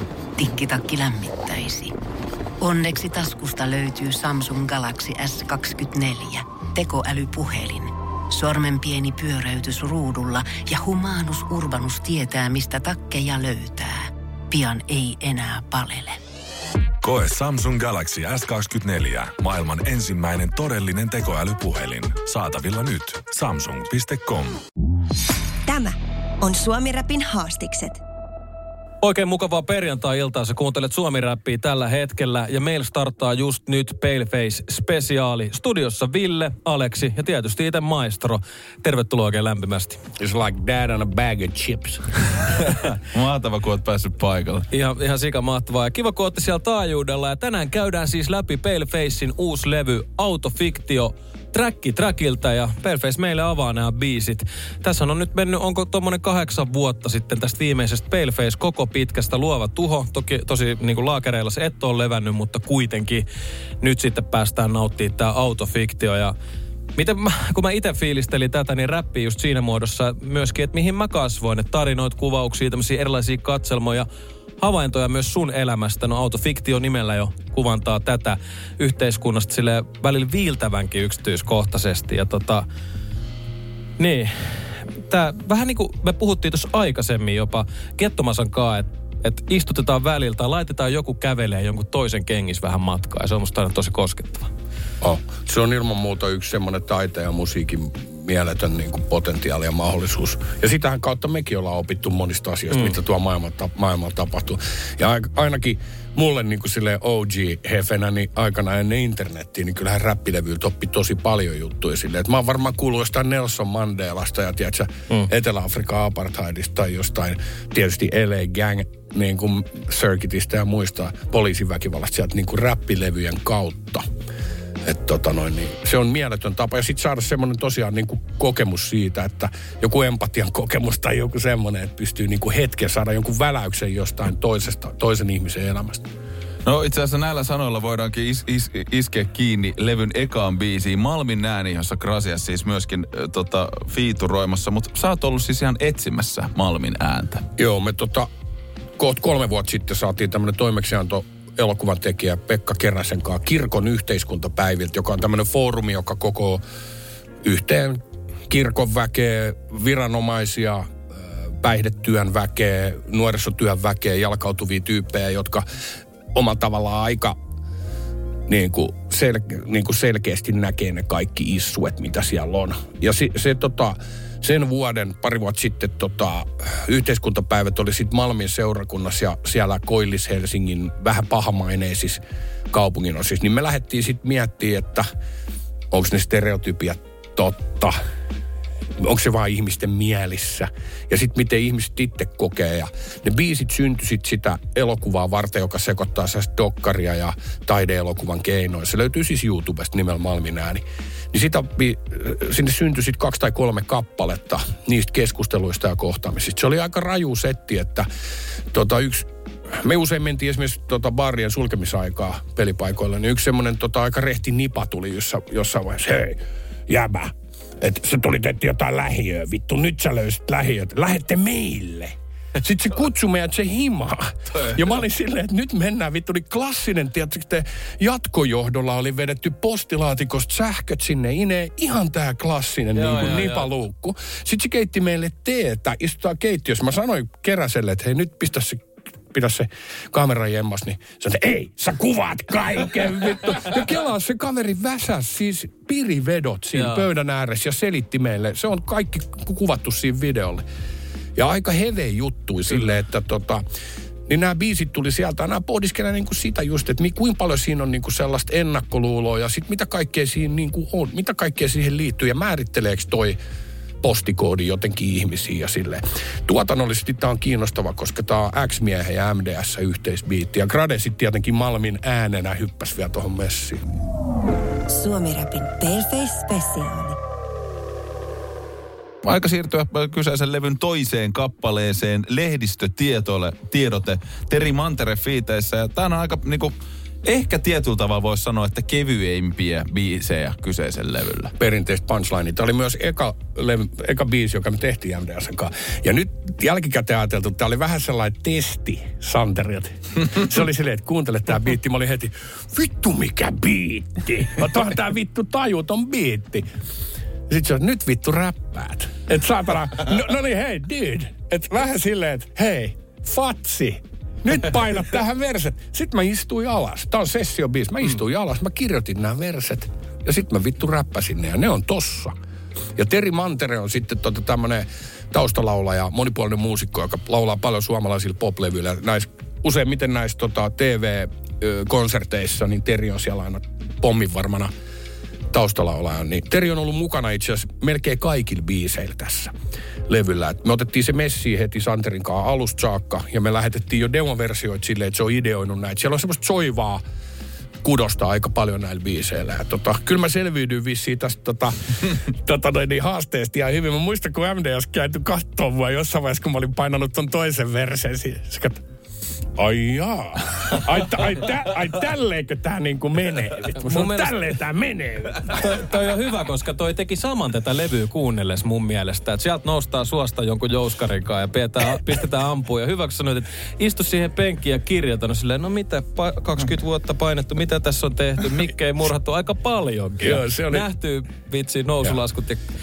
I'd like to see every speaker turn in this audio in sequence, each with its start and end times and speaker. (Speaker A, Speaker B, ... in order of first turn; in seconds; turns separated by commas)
Speaker A: 0.4-1.9, Speaker A: 2.6-16.2, Speaker B: 17.0-24.6, Speaker C: 25.7-28.0, Speaker D: 29.0-40.0, Speaker E: 40.2-42.5, Speaker F: 42.7-44.7, Speaker D: 44.7-63.2, Speaker D: 63.8-66.3, Speaker D: 67.0-74.1, Speaker D: 74.6-82.7, Speaker D: 84.0-94.5, Speaker E: 95.0-124.1, Speaker E: 124.8-136.1, Speaker F: 136.6-147.5, Speaker E: 147.6-148.3, Speaker E: 149.0-156.6, Speaker E: 157.4-165.7, Speaker E: 166.3-167.4, Speaker E: 168.5-185.1, Speaker E: 185.9-188.0, Speaker E: 189.0-208.1, Speaker E: 208.7-250.6, Speaker D: 232.9-233.7, Speaker D: 246.8-247.0, Speaker E: 251.3-253.6, Speaker E: 254.3-263.4, Speaker E: 264.0-273.8, Speaker C: 274.9-277.2, Speaker F: 279.2-286.7, Speaker F: 287.2-291.5, Speaker E: 291.6-306.7, Speaker E: 307.5-322.3, Speaker E: 322.9-334.7, Speaker E: 335.5-339.5, Speaker E: 340.1-347.0, Speaker E: 347.8-358.8, Speaker E: 359.6-365.8, Speaker D: 363.8-364.3, Speaker D: 365.4-382.6, Speaker E: 380.2-380.9